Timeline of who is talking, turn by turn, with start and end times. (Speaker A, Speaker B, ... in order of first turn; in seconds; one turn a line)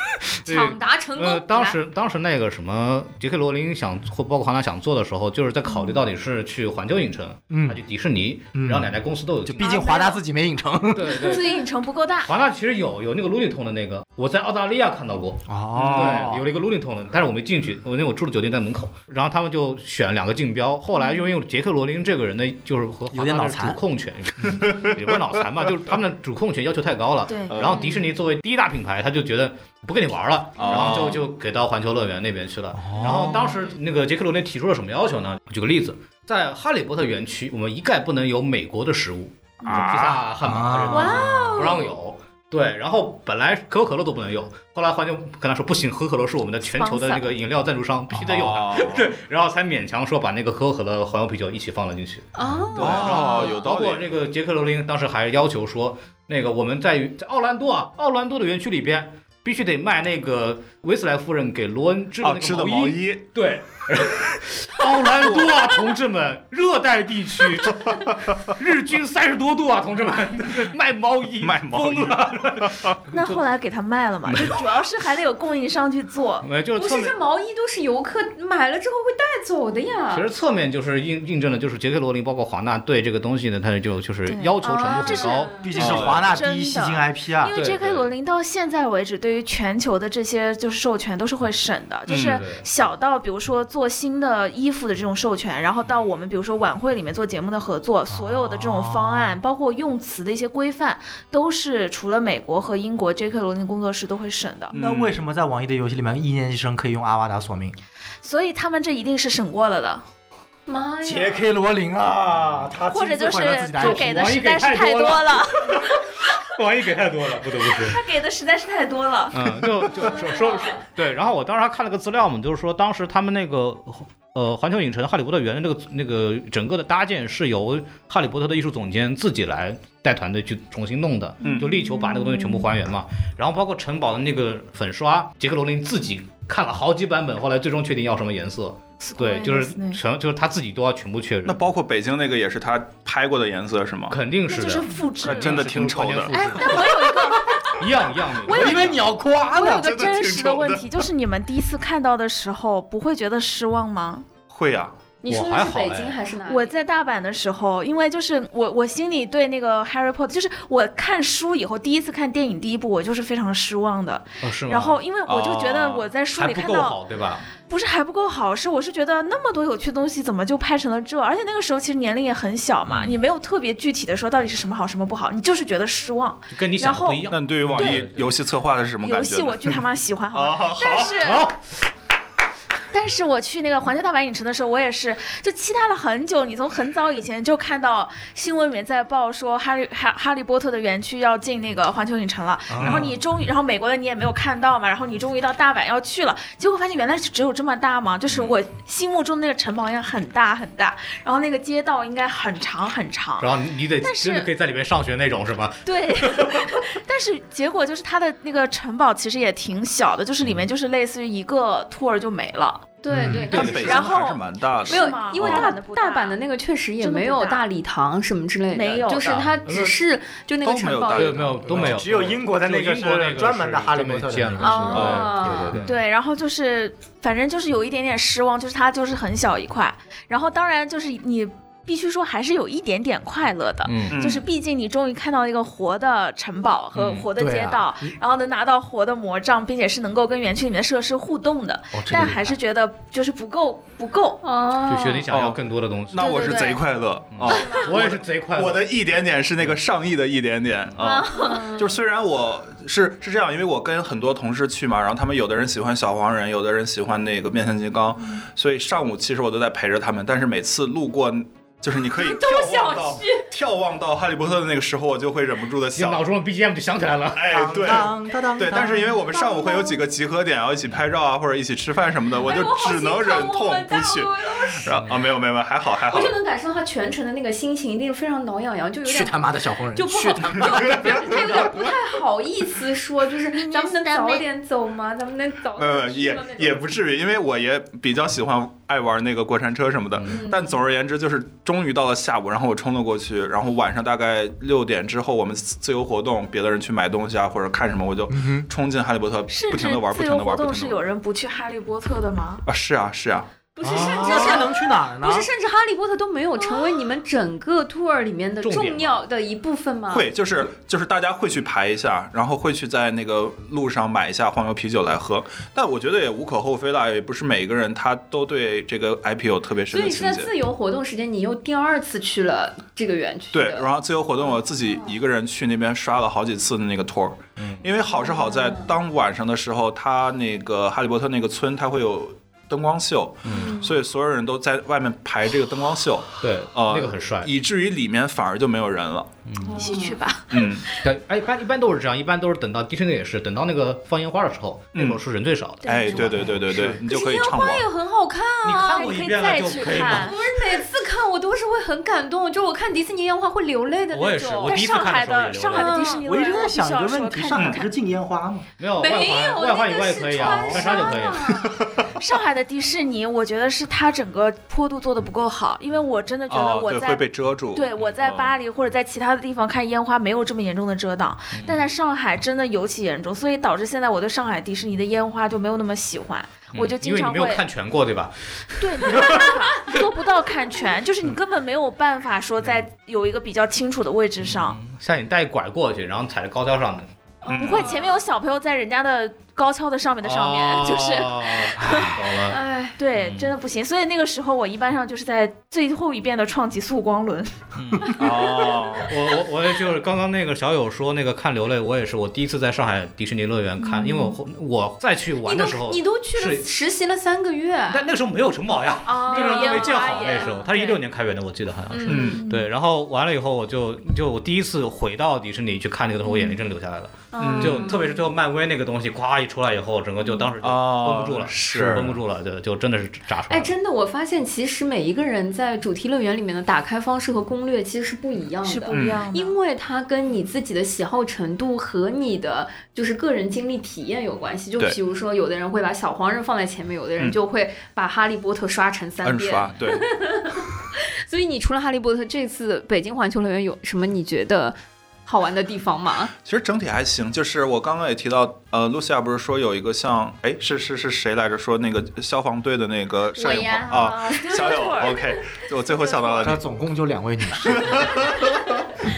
Speaker A: 0.3-9.7
Speaker B: 0.4-1.8
Speaker C: 5.7-6.0
Speaker D: 7.5-7.8
Speaker D: 8.5-11.2
Speaker B: 9.6-10.2
Speaker C: 9.6-10.0
Speaker A: 10.9-11.6
Speaker C: 11.1-12.3
Speaker A: 12.2-73.4
Speaker D: 15.5-16.5
Speaker E: 15.8-16.3
Speaker C: 20.9-21.3
Speaker D: 23.1-23.8
Speaker C: 27.3-28.1
Speaker E: 27.5-27.9
Speaker E: 30.6-31.2
Speaker C: 30.7-31.2
Speaker D: 32.7-33.5
Speaker C: 33.1-33.7
Speaker E: 39.7-40.2
Speaker D: 40.4-41.2
Speaker C: 40.9-41.9
Speaker C: 46.7-47.3
Speaker E: 48.2-49.1
Speaker B: 52.3-53.5
Speaker E: 52.8-54.1
Speaker E: 62.2-63.2
Speaker E: 65.2-65.5
Speaker E: 67.7-68.3
Speaker E: 71.4-73.0
Speaker C: 73.1-76.5
Speaker A: 74.2-74.6
Speaker A: 76.4-77.1
Speaker B: 76.8-80.3
Speaker A: 80.1-86.1
Speaker C: 84.2-104.7
Speaker B: 84.9-85.3
Speaker D: 85.6-87.5
Speaker E: 85.7-86.3
Speaker A: 87.5-88.1
Speaker E: 92.1-92.4
Speaker A: 92.2-92.6
Speaker D: 98.1-99.4
Speaker E: 104.7-105.2
Speaker D: 104.7-107.8
Speaker C: 108.2-110.0
Speaker B: 110.7-111.5
Speaker D: 111.0-114.3
Speaker A: 112.4-112.7
Speaker C: 112.9-116.3
Speaker A: 113.7-118.0
Speaker C: 117.6-120.7
Speaker A: 119.3-141.6
Speaker C: 131.4-132.7
Speaker C: 139.1-140.0
Speaker E: 141.4-144.2
Speaker A: 144.1-146.9
Speaker C: 144.5-145.7
Speaker E: 145.2-146.3
Speaker C: 146.3-147.5
Speaker B: 146.4-147.7
Speaker A: 147.7-149.1
Speaker D: 148.5-149.9
Speaker C: 148.5-148.8
Speaker C: 149.5-154.3
Speaker E: 149.6-150.9
Speaker E: 154.5-154.9
Speaker B: 155.2-156.7
Speaker A: 155.3-156.2
Speaker C: 156.4-167.0
Speaker A: 164.4-165.0
Speaker E: 165.2-166.1
Speaker A: 166.3-167.4
Speaker C: 167.7-178.0
Speaker A: 172.9-173.2
Speaker A: 176.5-178.3
Speaker E: 177.3-179.7
Speaker C: 179.0-181.4
Speaker E: 180.3-181.2
Speaker A: 181.2-181.6
Speaker C: 182.9-204.5
Speaker D: 192.7-193.1
Speaker E: 192.8-193.1
Speaker E: 198.3-198.5
Speaker A: 203.4-206.8
Speaker C: 205.8-212.9
Speaker A: 210.4-210.7
Speaker B: 213.0-214.2
Speaker D: 213.1-213.5
Speaker A: 213.1-214.1
Speaker E: 213.4-215.7
Speaker C: 213.6-216.4
Speaker B: 214.8-221.6
Speaker C: 217.0-217.6
Speaker C: 218.7-219.5
Speaker A: 219.6-219.9
Speaker E: 220.6-222.0
Speaker A: 221.2-226.0
Speaker D: 221.7-225.8
Speaker B: 224.6-225.8
Speaker E: 224.9-225.3
Speaker C: 225.8-244.4
Speaker A: 233.8-234.2
Speaker E: 234.1-234.4
Speaker A: 236.9-237.3
Speaker D: 237.3-238.1
Speaker D: 241.9-242.5
Speaker B: 244.4-245.2
Speaker A: 244.9-246.4
Speaker E: 245.3-266.2
Speaker C: 246.2-246.8
Speaker A: 247.3-248.9
Speaker C: 247.4-247.9
Speaker B: 251.0-252.0
Speaker C: 251.0-251.7
Speaker B: 262.2-263.4
Speaker A: 265.9-267.6
Speaker E: 267.3-276.4
Speaker D: 267.5-269.2
Speaker B: 269.3-270.0
Speaker B: 272.4-274.9
Speaker A: 274.9-275.2
Speaker B: 276.1-286.8
Speaker D: 279.0-281.5
Speaker E: 280.7-281.9
Speaker C: 283.5-284.4
Speaker E: 285.8-301.0
Speaker B: 290.2-290.8
Speaker D: 298.3-298.7
Speaker C: 299.5-302.6
Speaker E: 302.6-303.5
Speaker B: 303.8-310.3
Speaker D: 303.8-305.5
Speaker C: 303.9-304.6
Speaker C: 306.6-307.0
Speaker A: 308.6-309.2
Speaker E: 310.1-320.5
Speaker B: 319.9-323.9
Speaker E: 323.5-339.3
Speaker B: 324.4-325.1
Speaker A: 327.6-327.8
Speaker B: 328.1-328.9
Speaker A: 333.4-333.7
Speaker B: 333.5-333.9
Speaker A: 336.4-337.5
Speaker A: 339.4-339.8
Speaker B: 339.7-340.2
Speaker C: 339.7-340.9
Speaker E: 340.5-340.9
Speaker A: 341.0-347.0
Speaker E: 344.9-345.2
Speaker C: 345.8-346.5
Speaker E: 345.8-347.9
Speaker B: 347.1-349.1
Speaker A: 348.6-350.4
Speaker C: 348.7-350.4
Speaker B: 349.9-354.8
Speaker A: 354.1-356.1
Speaker C: 354.6-357.9
Speaker B: 355.7-356.2
Speaker D: 356.2-358.7
Speaker E: 357.5-357.8
Speaker A: 358.8-361.6
Speaker B: 359.0-361.7
Speaker C: 360.3-361.4
Speaker E: 361.6-362.1
Speaker C: 362.1-377.6
Speaker E: 366.5-368.6
Speaker A: 371.5-371.8
Speaker A: 376.7-379.5
Speaker C: 378.8-384.8
Speaker A: 384.4-387.1
Speaker B: 387.4-388.1
Speaker E: 387.5-387.9
Speaker C: 387.5-392.3
Speaker A: 390.2-392.6
Speaker B: 392.5-393.0
Speaker C: 393.0-398.7
Speaker A: 393.1-393.5
Speaker A: 397.8-398.1
Speaker E: 398.1-399.1
Speaker A: 399.1-406.7
Speaker C: 403.8-404.4
Speaker B: 405.4-408.0
Speaker A: 407.9-423.7
Speaker C: 409.1-411.0
Speaker B: 409.1-410.9
Speaker B: 411.9-412.4
Speaker E: 412.1-412.4
Speaker C: 412.1-412.7
Speaker C: 416.2-416.6
Speaker B: 417.3-418.0
Speaker E: 417.4-417.9
Speaker E: 420.6-422.2
Speaker B: 423.5-440.7
Speaker C: 428.6-429.5
Speaker E: 428.9-429.2
Speaker E: 439.2-440.1
Speaker B: 441.3-446.3
Speaker E: 446.4-456.6
Speaker B: 453.4-454.8
Speaker C: 453.9-455.3
Speaker C: 456.1-456.5
Speaker D: 456.4-458.1
Speaker E: 457.7-458.7